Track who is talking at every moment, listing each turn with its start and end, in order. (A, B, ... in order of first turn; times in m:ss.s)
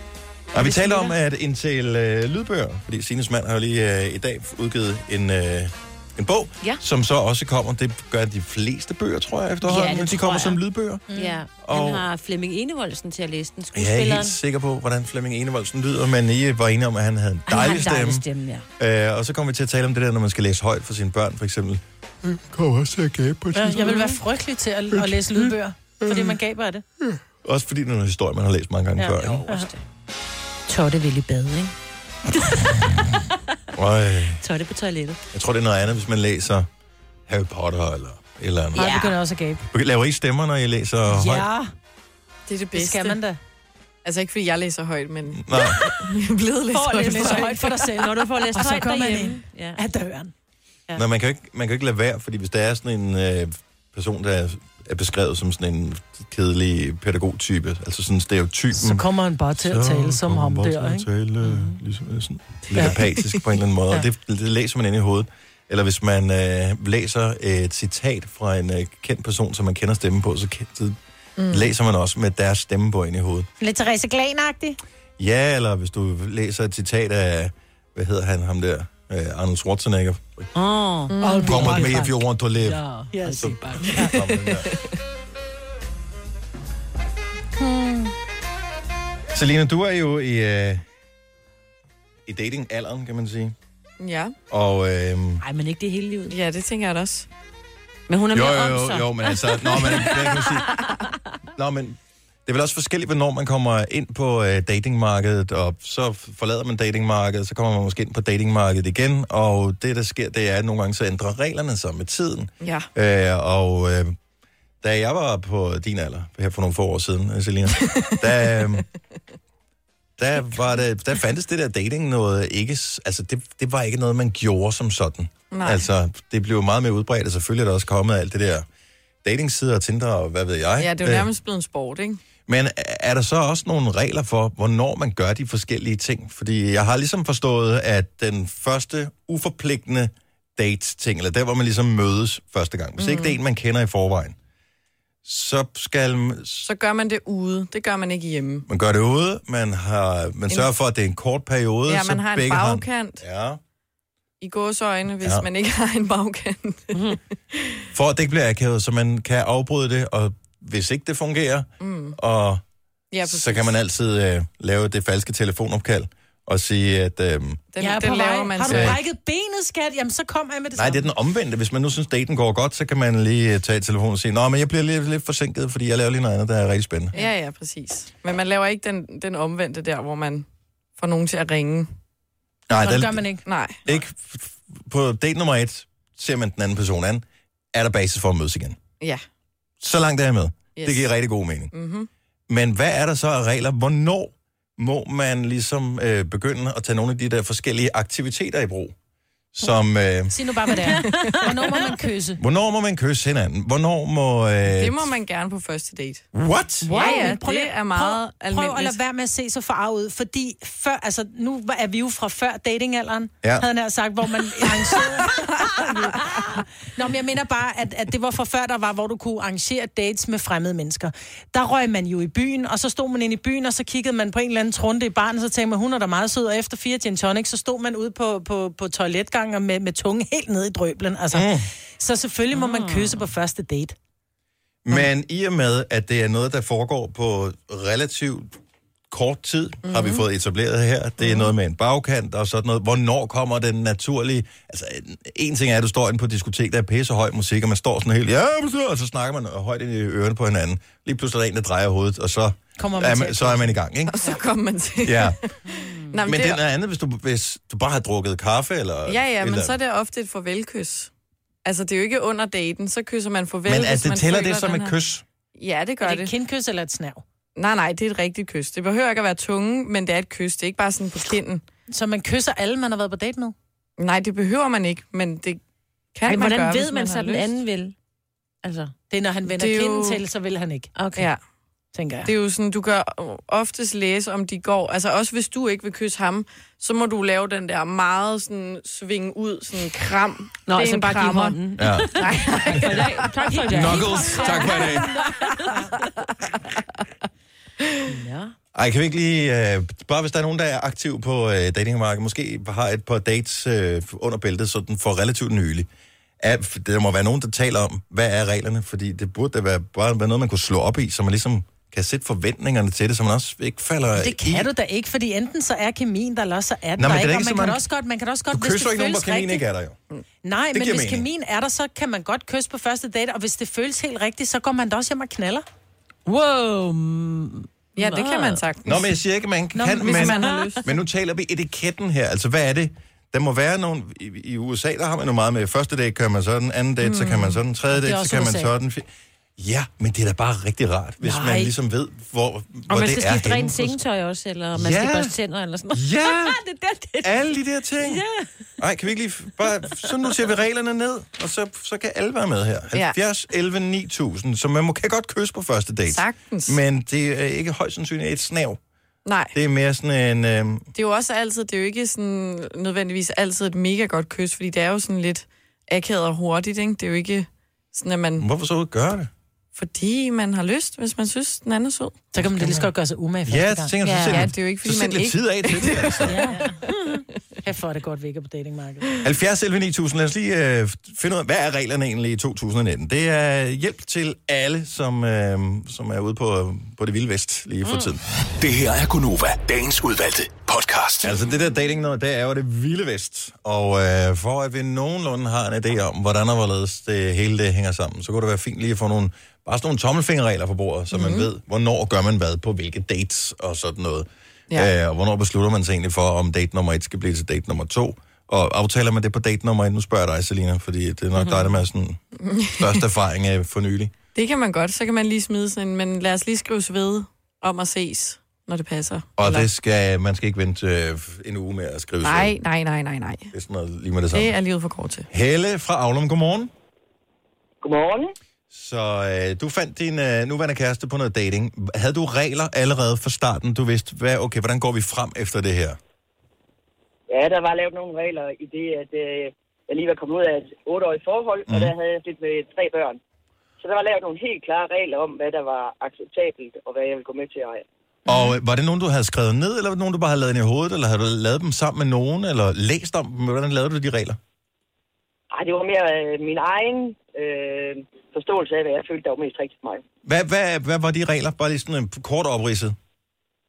0:00.5-0:11.0 A
0:00.6-0:01.1 B
0:09.6-0:10.6 B
0:11.1-0:11.4 C
0:11.1-0:14.4 B
0:11.6-0:12.0 A
0:13.7-0:18.2 A
0:17.5-0:18.6 B
0:18.8-0:24.0 A
0:23.5-0:26.8 C
0:23.8-0:24.1 B
0:24.9-0:25.4 A
0:27.4-0:29.4 A
0:29.0-0:29.7 C
0:29.2-0:29.8 B
0:30.7-0:31.7 B
0:32.5-0:32.8 B
0:33.8-0:34.4 A
0:34.4-0:35.2 B
0:35.3-0:36.7 A
0:37.3-0:39.0 A
0:38.8-0:39.7 C
0:38.8-0:39.1 B
0:39.7-0:41.5 A
0:41.1-0:41.7 C
0:42.5-0:43.2 D
0:42.7-0:43.4 C
0:44.0-0:47.8 D
0:45.4-0:45.8 A
0:46.7-0:49.8 B
0:46.8-0:50.3 C
0:50.9-1:11.0 A
0:58.7-1:01.1 C
1:01.4-1:01.8 B
1:02.7-1:03.0 C
1:11.4-1:11.7 D
1:11.5-1:13.5 A
1:13.6-1:14.8 C
1:15.2-1:20.5 A
1:20.5-1:22.0 B
1:21.1-1:21.4 D
1:21.2-1:22.2 C
1:21.4-1:24.7 A
1:22.7-1:23.6 B
1:23.1-1:24.1 C
1:23.8-1:24.9 D
1:27.6-1:28.1 C
1:29.3-1:30.8 A
1:32.2-1:33.5 A
1:34.0-1:34.4 D
1:34.5-1:35.4 A
1:35.4-1:36.4 B
1:36.3-1:37.3 D
1:38.1-1:40.6 B
1:38.3-1:40.7 A
1:41.6-1:54.1 A
1:52.6-1:52.9 D
1:54.8-1:58.8 A
1:57.7-1:58.7 D
2:00.2-2:08.7 A
2:05.5-2:05.8 D
2:09.2-2:11.3 A
2:10.8-2:12.2 D
2:12.5-2:24.4 A
2:23.0-2:23.4 D
2:25.2-2:26.7 A
2:26.6-2:28.6 D
2:28.7-2:33.6 A
2:31.9-2:33.2 D
2:34.4-2:37.8 D
2:37.9-2:42.6 A
2:41.8-2:42.2 D
2:43.1-2:43.8 D
2:43.2-2:47.6 A
2:47.7-2:49.0 D
2:47.8-2:51.1 C
2:48.7-2:49.0 A
2:50.8-2:57.1 A
2:57.1-3:00.4 D
3:01.0-3:01.9 D
3:02.7-3:03.2 A
3:02.8-3:03.4 C
3:03.4-3:03.9 D
3:03.8-3:08.8 A
3:09.8-3:11.7 A
3:10.8-3:11.1 D
3:11.7-3:12.1 D
3:12.5-3:18.9 A
3:19.5-3:20.3 A
3:20.3-3:22.4 C
3:20.9-3:21.9 B
3:22.4-3:25.1 A
3:24.7-3:26.3 D
3:26.3-3:27.0 A
3:26.8-3:29.0 D
3:26.9-3:54.0 C
3:27.0-3:27.3 B
3:51.3-3:51.7 A
3:52.5-3:53.2 B
3:54.8-3:58.5 A
3:59.1-4:14.2 A
3:59.8-4:00.2 D
4:12.8-4:13.8 C
4:14.1-4:16.6 D
4:15.0-4:15.4 A
4:16.2-4:19.8 A
4:19.0-4:21.1 D
4:21.6-4:25.0 D
4:23.6-4:25.2 A
4:25.5-4:26.3 D
4:26.0-4:27.2 C
4:27.6-4:31.6 D
4:31.9-4:33.5 C
4:34.0-4:35.6 D
4:36.1-4:37.6 D
4:36.2-4:37.9 B
4:38.6-4:38.9 B
4:39.1-4:40.9 C
4:39.5-4:40.2 D
4:40.9-4:41.3 B
4:41.2-4:41.4 D
4:41.9-4:42.3 C
4:42.2-4:55.5 D
4:50.6-4:55.8 B
4:51.8-4:52.1 A
4:53.7-4:55.2 A
4:58.1-4:58.5 B
4:58.7-5:05.9 A
5:06.4-5:14.7 A
5:14.2-5:19.6 C
5:17.0-5:17.8 A
5:18.5-5:20.0 A
5:20.4-5:25.6 C
5:20.7-5:21.2 A
5:26.2-5:28.6 B
5:28.0-5:29.0 D
5:28.8-5:44.0 A
5:29.8-5:30.7 C
5:29.9-5:30.8 D
5:37.0-5:37.6 D
5:37.9-5:38.7 C
5:41.2-5:41.7 C
5:42.9-5:47.4 B
5:44.7-5:45.3 A
5:45.9-5:46.6 A
5:47.2-5:48.2 A
5:48.0-5:48.4 B
5:48.8-5:58.8 A
5:56.1-5:56.8 D
5:59.2-5:59.5 D
5:59.5-6:00.9 A
6:00.9-6:08.5 D
6:08.4-6:09.3 A
6:09.7-6:12.2 D
6:12.3-6:14.0 C
6:12.4-6:12.9 A
6:13.4-6:16.4 A
6:14.0-6:14.5 B
6:14.2-6:16.3 D
6:16.2-6:16.7 C
6:17.6-6:19.1 C
6:19.2-6:28.2 A
6:28.6-6:31.4 E
6:31.2-6:52.2 A
6:41.1-6:41.5 D
6:51.4-6:51.7 B
6:52.4-6:53.0 D
6:52.8-6:54.1 A
6:54.3-6:59.7 D
6:59.4-7:02.6 A
7:02.2-7:03.5 D
7:03.5-7:04.5 A
7:04.3-7:05.3 D
7:05.3-7:06.7 A
7:07.8-7:08.3 F
7:08.7-7:16.0 A
7:17.3-7:23.2 F
7:21.7-7:21.9 A
7:23.8-7:27.8 F
7:28.3-7:34.4 A
7:35.5-7:40.0 F
7:40.2-7:43.0 A